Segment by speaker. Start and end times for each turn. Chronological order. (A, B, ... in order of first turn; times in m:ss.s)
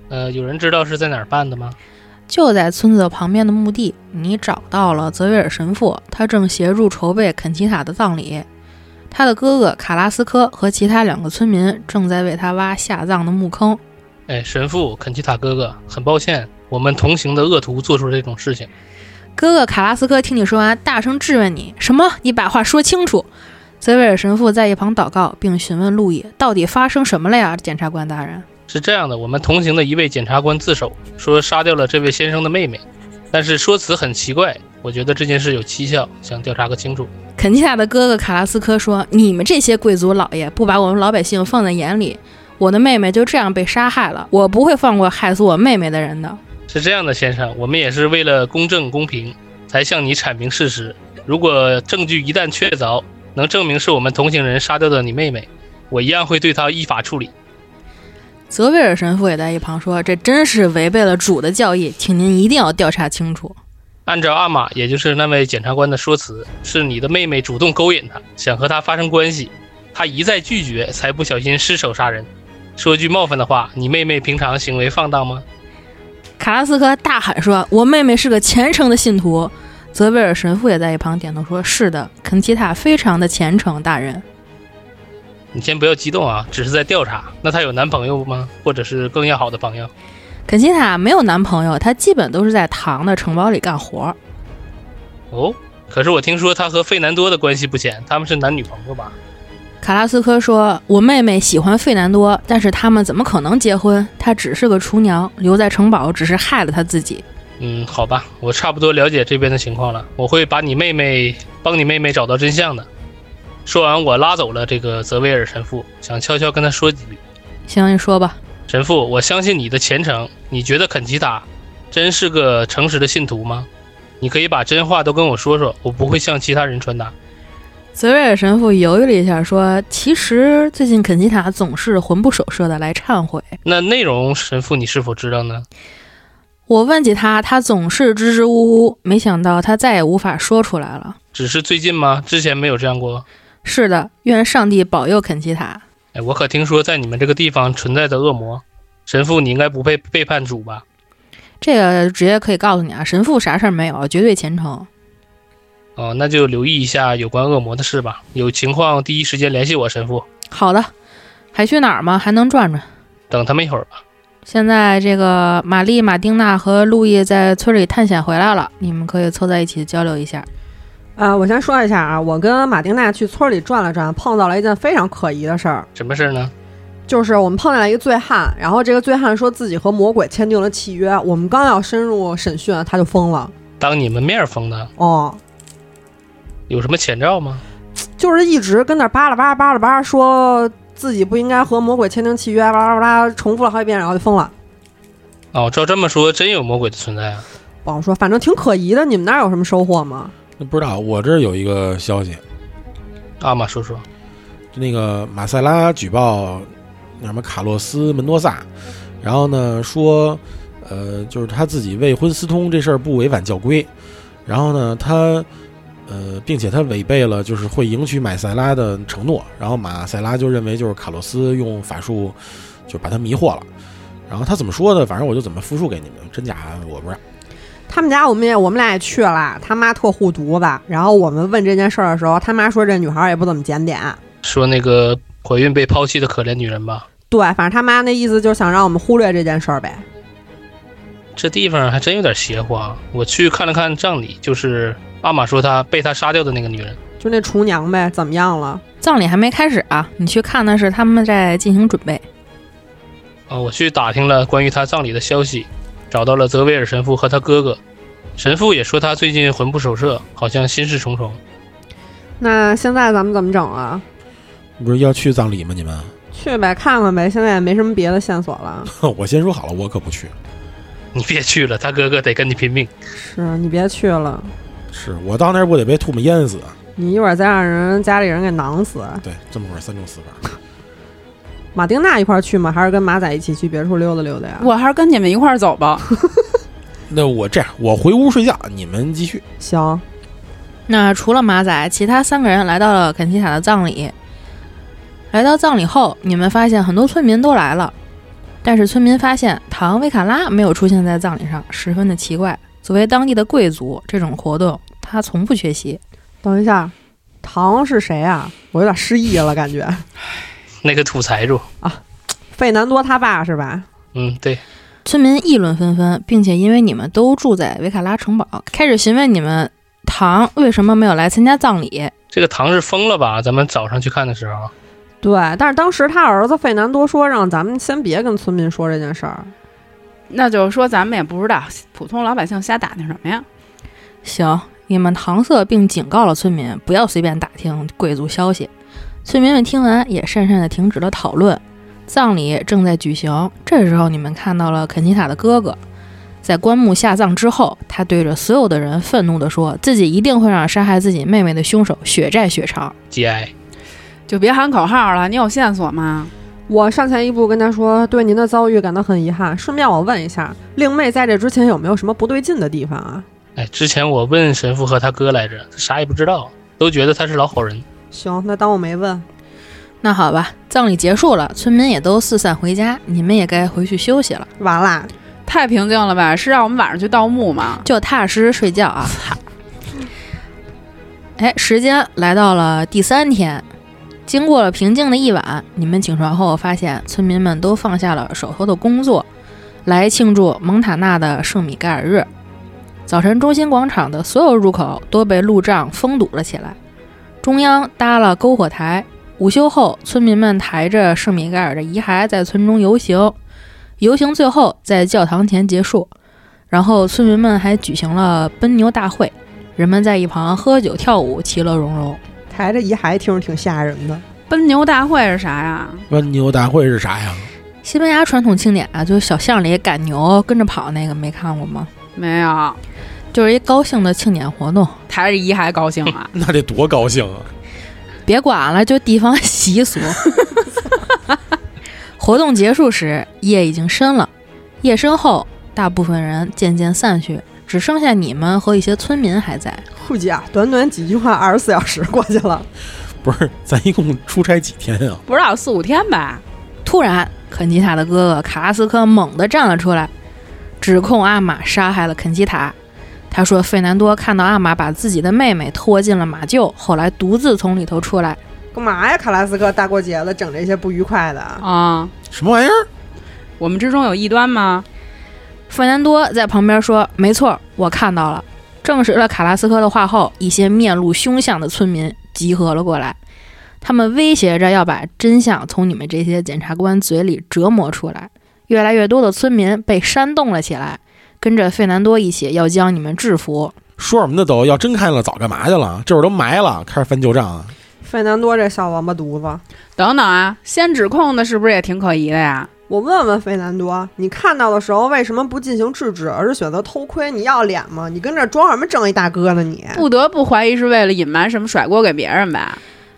0:00.1-0:01.8 A
0:02.3-0:08.4 B
0:09.1-0:13.8 B
0:14.3-0:18.7 A
0:19.4-0:23.3 B
0:23.8-0:28.4 B
0:28.7-0:37.1 A
0:37.4-0:46.4 B
0:46.7-0:57.3 A
0:58.5-1:03.6 B
1:04.0-1:15.4 A
1:16.4-1:24.2 B
1:25.5-1:29.9 A
1:30.5-1:34.2 B
1:35.3-1:39.1 A
1:39.8-1:47.2 B
1:47.6-1:52.9 A
1:53.6-1:57.2 A
1:57.7-1:58.4 B
1:58.7-2:03.7 A
2:04.2-2:07.1 A
2:07.9-2:13.6 B
2:13.6-2:15.6 A
2:16.7-2:21.2 B
2:21.3-2:23.2 A
2:23.6-2:25.8 B
2:26.1-2:30.8 A
2:31.6-2:34.9 B
2:36.0-2:40.2 A
2:40.5-2:40.9 B
2:41.5-2:42.8 B
2:43.3-2:44.0 A
2:44.4-2:50.5 B
2:51.2-2:55.9 C
2:56.0-2:56.5 A
2:57.1-3:03.5 C
3:03.8-3:04.9 A
3:05.0-3:05.4 C
3:06.7-3:07.6 A
3:08.2-3:14.5 C
3:15.5-3:17.4 A
3:17.8-3:20.3 C
3:20.6-3:22.4 D
3:23.4-3:24.0 A
3:24.7-3:28.6 D
3:29.2-3:33.9 D
3:34.4-3:35.5 D
3:36.1-3:43.6 D
3:44.3-3:47.2 D
3:47.9-3:54.2 C
3:54.4-3:57.0 A
3:57.3-4:00.0 C
4:01.4-4:07.0 A
4:07.2-4:08.8 C
4:09.0-4:12.2 B
4:13.5-4:17.8 A
4:18.4-4:21.4 A
4:22.4-4:24.0 C
4:24.8-4:26.1 D
4:26.3-4:28.9 C
4:28.9-4:30.3 D
4:31.1-4:32.9 A
4:33.1-4:34.5 C
4:34.9-4:36.7 D
4:37.0-4:39.2 C
4:39.2-4:40.4 D
4:41.7-4:44.7 C
4:44.6-4:46.1 E
4:47.1-4:49.4 D
4:49.6-4:50.0 C
4:50.9-4:54.1 B
4:55.3-4:57.9 B
4:58.6-5:06.0 B
5:06.4-5:10.0 C
5:10.8-5:11.6 A
5:12.5-5:13.8 C
5:14.1-5:14.6 A
5:15.0-5:22.1 B
5:22.3-5:24.7 A
5:25.2-5:29.5 C
5:30.3-5:33.4 E
5:34.2-5:38.7 B
5:39.2-5:45.8 B
5:46.4-5:52.9 B
5:53.1-5:53.5 A
5:54.3-5:56.3 E
5:56.7-6:03.2 C
6:03.6-6:07.8 A
6:08.1-6:09.2 C
6:10.0-6:14.5 B
6:14.6-6:15.1 C
6:15.4-6:17.8 E
6:17.8-6:19.2 B
6:21.4-6:23.6 B
6:24.2-6:29.2 B
6:29.8-6:32.3 B
6:33.1-6:36.8 B
6:37.4-6:43.4 B
6:44.0-6:46.1 B
6:46.7-6:52.2 B
6:52.5-6:54.2 C
6:54.5-6:56.1 E
6:56.1-6:57.5 D
6:57.8-7:01.9 B
7:02.1-7:02.8 E
7:03.3-7:05.0 B
7:05.1-7:06.3 E
7:06.3-7:07.5 D
7:08.2-7:10.3 B
7:12.2-7:14.3 B
7:14.8-7:19.8 B
7:20.0-7:22.7 C
7:23.2-7:25.2 D
7:25.2-7:26.4 E
7:26.8-7:30.1 B
7:30.8-7:32.7 B
7:33.3-7:38.4 B
7:38.7-7:41.6 C
7:41.6-7:42.1 E
7:42.3-7:42.9 D
7:43.6-7:44.8 E
7:45.7-7:53.2 B
7:53.8-8:03.7 B
8:04.0-8:07.7 D
8:08.0-8:09.6 C
8:10.0-8:12.7 E
8:12.9-8:20.0 C
8:19.9-8:22.8 E